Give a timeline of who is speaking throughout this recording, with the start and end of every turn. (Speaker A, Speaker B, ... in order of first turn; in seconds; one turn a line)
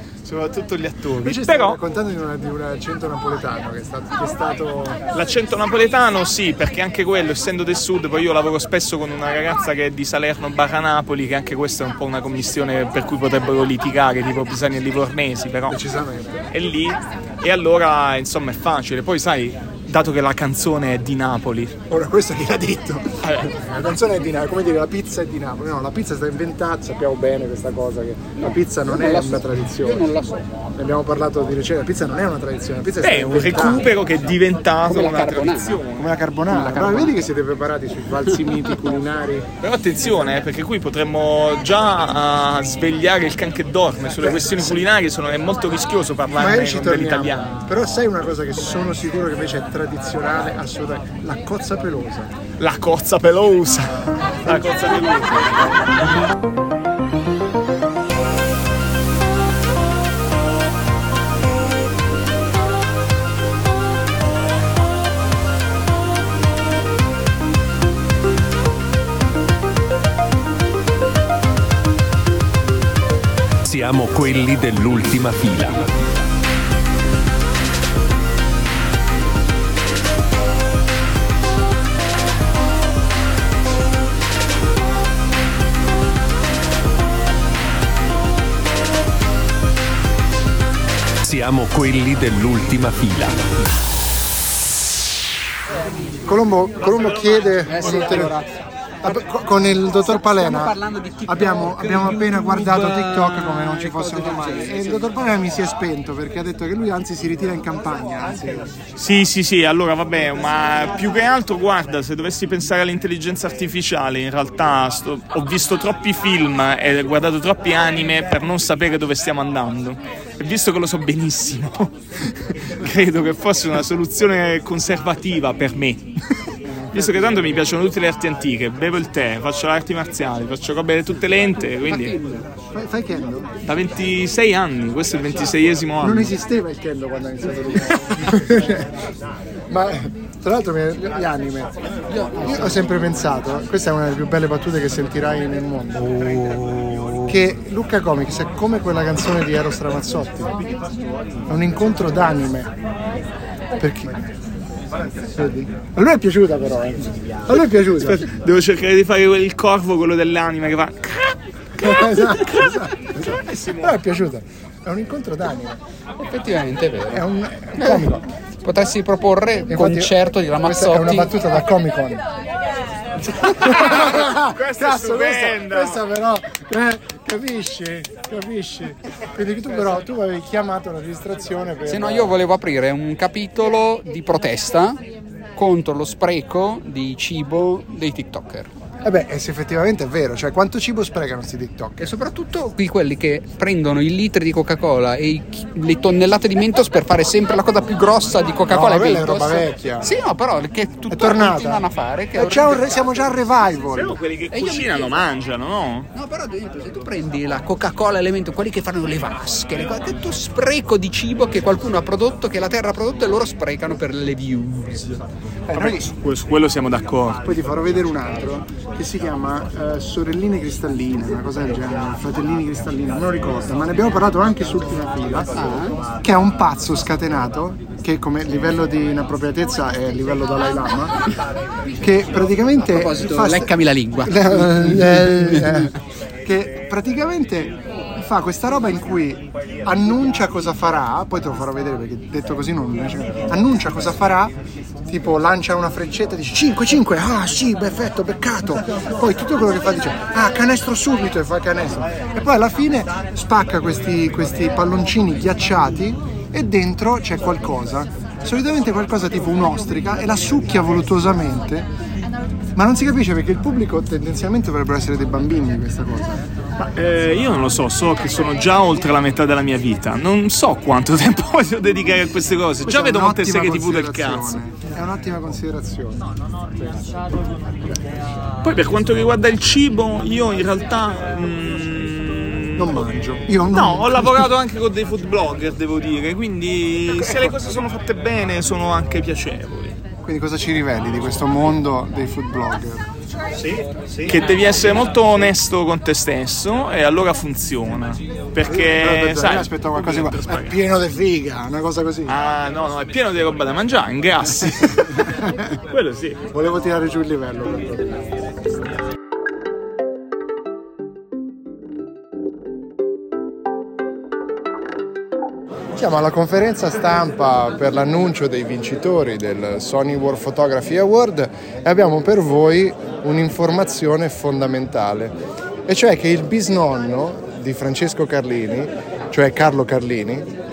Speaker A: 0.2-1.8
Speaker B: 1.2-5.0
Speaker A: 5.1-15.8
Speaker B: 15.7-16.4
Speaker A: 16.5-21.8
Speaker B: 21.9-30.1
Speaker A: 23.2-23.6
Speaker C: 28.9-30.5
Speaker B: 30.8-33.9
Speaker A: 33.0-36.1
Speaker C: 34.8-35.8
Speaker B: 36.0-39.5
Speaker C: 36.5-37.1
Speaker A: 39.6-47.6
Speaker B: 44.2-44.8
Speaker B: 46.3-52.3
Speaker A: 52.6-55.7
Speaker D: 73.6-76.1
Speaker D: 91.2-93.6
Speaker B: 96.2-98.4
Speaker A: 96.9-97.7
Speaker C: 97.7-99.2
Speaker B: 99.0-100.8
Speaker C: 100.0-105.1
Speaker B: 101.3-108.7
Speaker A: 109.0-126.2
Speaker B: 126.6-127.7
Speaker A: 126.9-132.1
Speaker C: 131.9-132.5
Speaker B: 132.7-133.5
Speaker A: 133.6-136.3
Speaker B: 136.0-138.9
Speaker B: 139.7-141.7
Speaker C: 142.1-142.9
Speaker B: 142.4-146.2
Speaker A: 146.4-147.2
Speaker B: 147.2-150.5
Speaker B: 151.5-152.7
Speaker B: 153.8-154.3
Speaker B: 155.3-158.3
Speaker A: 158.0-163.9
Speaker B: 161.8-165.8
Speaker C: 166.2-167.2
Speaker B: 167.1-168.2
Speaker C: 167.8-168.1
Speaker C: 168.6-171.4
Speaker B: 169.7-172.2
Speaker B: 173.3-182.4
Speaker A: 173.5-176.0
Speaker C: 181.9-185.0
Speaker C: 185.6-188.7
Speaker B: 189.0-192.1
Speaker C: 192.0-203.2
Speaker B: 198.7-200.1
Speaker B: 201.1-204.2
Speaker A: 203.9-206.1
Speaker C: 204.5-205.2
Speaker C: 206.1-215.1
Speaker B: 215.7-216.1
Speaker A: 215.7-217.5
Speaker B: 217.4-225.5
Speaker C: 225.6-225.9
Speaker B: 226.2-231.3
Speaker B: 232.0-233.7
Speaker C: 232.8-235.9
Speaker B: 234.2-244.6
Speaker B: 245.1-261.9
Speaker B: 262.8-266.4
Speaker A: 266.8-274.6
Speaker B: 272.9-277.1
Speaker A: 278.6-283.0
Speaker B: 282.8-284.5
Speaker A: 283.7-290.0
Speaker B: 290.2-293.0
Speaker A: 293.6-300.8
Speaker B: 298.7-302.3
Speaker A: 302.3-305.3
Speaker B: 305.0-305.6
Speaker A: 305.9-306.4
Speaker B: 306.5-308.2
Speaker B: 315.9-325.4
Speaker B: 325.9-330.5